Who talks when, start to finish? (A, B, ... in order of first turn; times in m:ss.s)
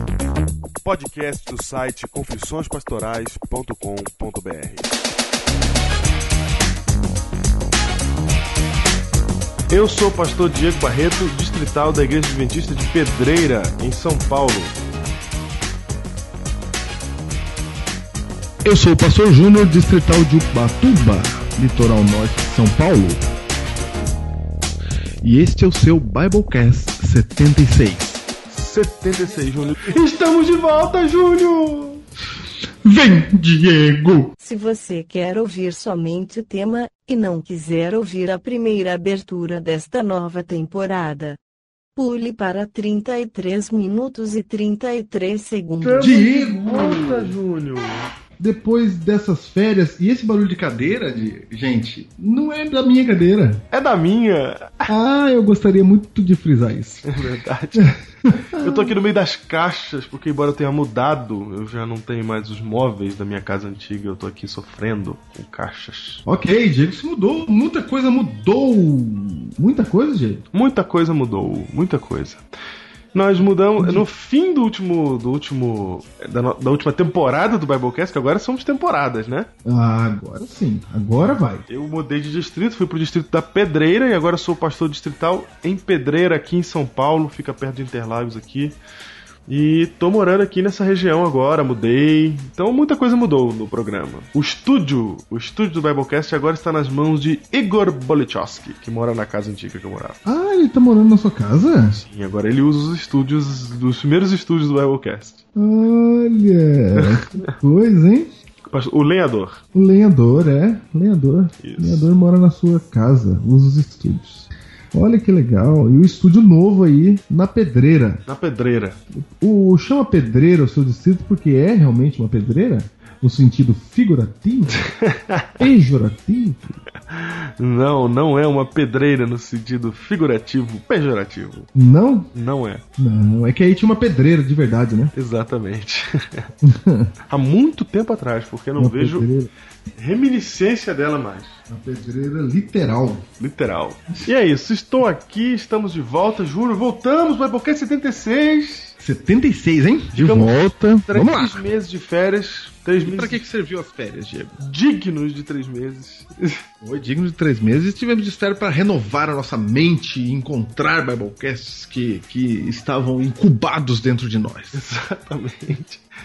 0:00.8-0:04.9 A
0:09.7-0:14.8 A
0:18.6-0:23.2 B
0:25.2-0:28.2 B
0:28.5-0:32.0 A
0:32.8-0:34.3 B
0:34.4-0:41.4 C
0:42.0-0:46.2 C
0:45.8-0:48.0 A
0:46.0-0:47.3 B
0:48.4-0:53.6 B
0:53.7-0:54.9 A
0:54.9-0:57.2 B
0:57.0-1:06.2 A
0:57.8-0:58.9 B
1:06.2-1:10.4 B
1:10.5-1:12.4 A
1:13.1-1:19.5 A
1:13.8-1:14.0 B
1:19.6-1:21.6 B
1:21.7-1:28.8 A
1:29.5-1:40.2 A
1:40.2-1:42.0 B
1:42.0-1:45.4 A
1:45.6-1:48.3 B
1:46.9-1:47.6 A
1:48.7-1:49.6 A
1:49.7-1:58.2 B
1:51.6-1:52.1 A
1:58.3-1:59.0 A
1:59.1-2:04.8 B
2:04.8-2:05.6 A
2:05.6-2:06.8 B
2:07.1-2:11.7 A
2:11.7-2:12.3 B
2:12.3-2:12.8 A
2:13.0-2:15.1 B
2:15.1-2:16.5 A
2:16.6-2:17.1 B
2:17.3-2:19.3 A
2:18.8-2:19.5 B
2:20.0-2:21.6 A
2:21.7-2:23.3 B
2:23.4-2:29.0 A
2:29.0-2:31.6 B
2:30.1-2:33.4 A
2:33.0-2:34.6 B
2:34.6-2:36.6 A
2:36.8-2:44.8 B
2:44.7-2:46.0 A